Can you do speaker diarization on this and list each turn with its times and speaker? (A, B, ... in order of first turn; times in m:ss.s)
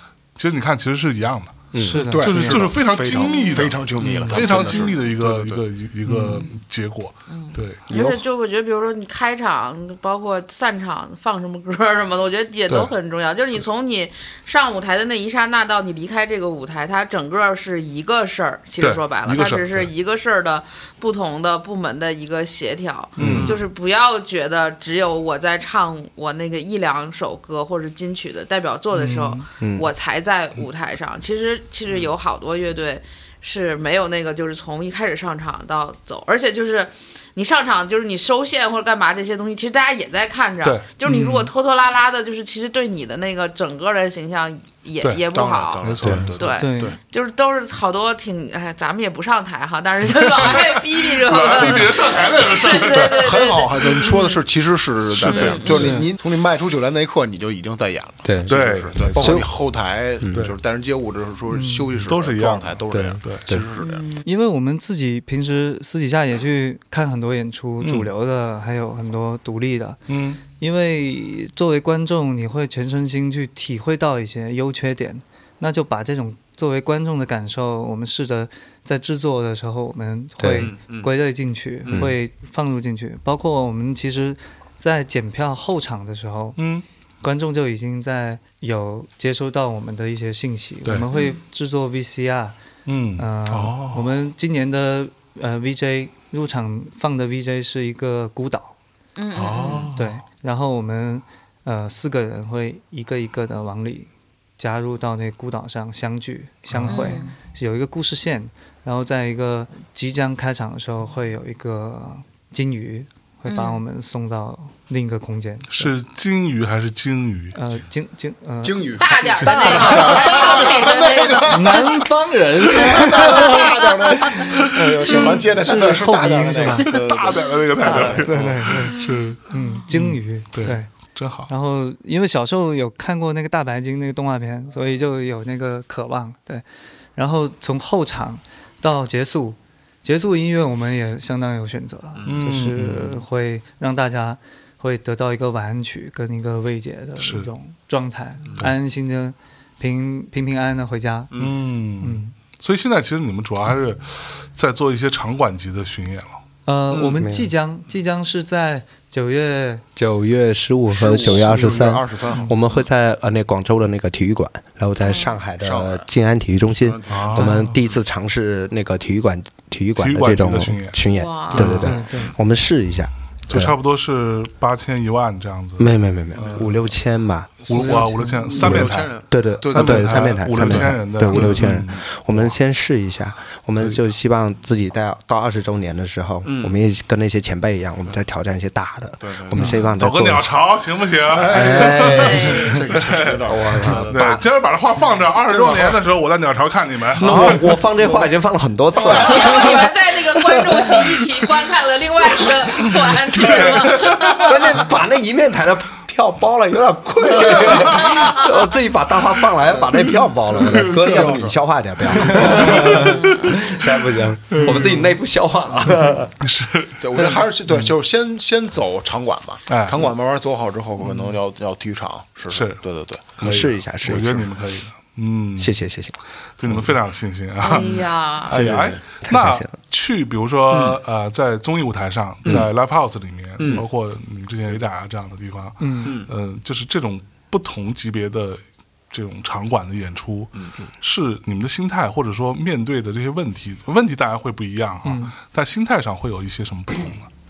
0:00.4-0:07.8 A
0:01.7-0:02.1 B
0:01.8-0:02.7 C
0:02.1-0:05.6 D
0:03.2-0:03.7 E
0:04.0-0:04.5 C
0:04.6-0:04.9 E
0:06.1-0:06.5 C
0:07.3-0:54.4 E
0:07.9-0:08.2 B
0:18.8-0:19.9 A
0:23.2-0:23.6 A
0:23.2-0:23.5 B
0:28.9-0:29.4 C
0:29.6-0:29.9 B
0:41.0-0:41.5 C
0:45.3-0:47.0 D
0:45.8-0:46.5 A
0:46.6-0:47.0 C
0:50.4-0:53.4 A
0:53.2-1:04.2 D
0:55.1-0:56.0 A
0:55.3-0:56.0 E
0:55.7-0:56.1 C
0:58.2-0:59.5 B
0:58.5-0:59.4 A
1:01.5-1:01.9 C
1:02.0-1:03.5 A
1:02.9-1:03.7 B
1:03.8-1:04.2 E
1:04.2-1:26.6 C
1:07.8-1:08.1 A
1:10.1-1:10.4 A
1:20.4-1:20.7 B
1:20.5-1:21.1 D
1:21.9-1:22.1 B
1:26.6-1:26.8 A
1:27.2-1:32.6 C
1:31.1-1:31.4 E
1:32.9-1:34.1 A
1:33.2-1:38.7 C
1:39.2-1:39.9 E
1:39.3-1:40.2 A
1:39.9-1:55.9 C
1:46.7-1:47.2 A
1:46.9-1:47.3 E
1:53.5-1:53.8 E
1:55.7-1:57.6 A
1:57.6-2:00.1 C
1:58.6-2:02.1 D
1:59.0-2:01.9 E
2:01.4-2:06.9 C
2:02.6-2:08.8 D
2:02.7-2:04.4 E
2:06.9-2:11.5 A
2:07.8-2:10.9 C
2:11.5-2:16.6 C
2:17.2-2:31.3 C
2:22.2-2:22.5 D
2:22.2-2:23.2 A
2:27.2-2:27.5 A
2:31.3-2:31.6 D
2:31.4-2:36.4 A
2:32.0-2:32.3 C
2:36.6-2:39.8 C
2:36.9-2:37.2 D
2:37.2-2:37.5 B
2:40.0-2:53.7 B
2:40.9-2:42.6 D
2:42.3-2:42.6 C
2:45.0-2:45.4 E
2:45.6-2:46.1 D
2:46.8-2:47.5 D
2:47.1-2:47.6 A
2:47.4-2:47.7 C
2:50.0-2:51.0 A
2:51.1-2:51.9 E
2:51.5-2:51.9 A
2:51.6-2:52.0 D
2:51.6-2:52.3 C
2:53.5-2:56.7 A
2:55.8-2:58.0 B
2:57.7-2:59.1 A
2:57.8-3:02.0 D
2:57.8-2:58.5 C
2:58.6-3:10.5 B
2:59.7-3:02.0 A
3:06.4-3:06.8 D
3:09.2-3:10.0 D
3:09.6-3:12.4 A
3:11.2-3:14.4 D
3:11.5-3:12.9 B
3:12.1-3:12.8 E
3:12.9-3:17.6 A
3:13.4-3:14.4 B
3:15.1-3:16.0 D
3:17.2-3:18.3 D
3:17.2-3:21.2 B
3:19.0-3:19.9 D
3:19.0-3:24.8 E
3:23.5-3:36.3 B
3:23.9-3:24.2 A
3:27.4-3:27.9 D
3:28.0-3:28.5 E
3:30.5-3:31.6 D
3:30.7-3:31.3 A
3:32.1-3:33.0 D
3:32.4-3:33.5 A
3:32.5-3:33.2 C
3:34.5-3:35.0 A
3:34.7-3:35.1 D
3:36.4-3:37.9 A
3:37.0-3:43.4 D
3:39.7-3:40.1 A
3:42.5-3:42.8 A
3:43.4-3:45.7 A
3:43.4-3:44.5 B
3:45.6-3:46.2 B
3:46.6-4:07.3 A
3:47.6-3:48.5 E
3:47.7-3:49.0 D
3:49.2-3:49.8 B
3:50.7-3:51.0 D
3:53.6-3:53.8 D
3:55.8-3:56.2 C
4:00.6-4:00.9 D
4:05.0-4:05.4 C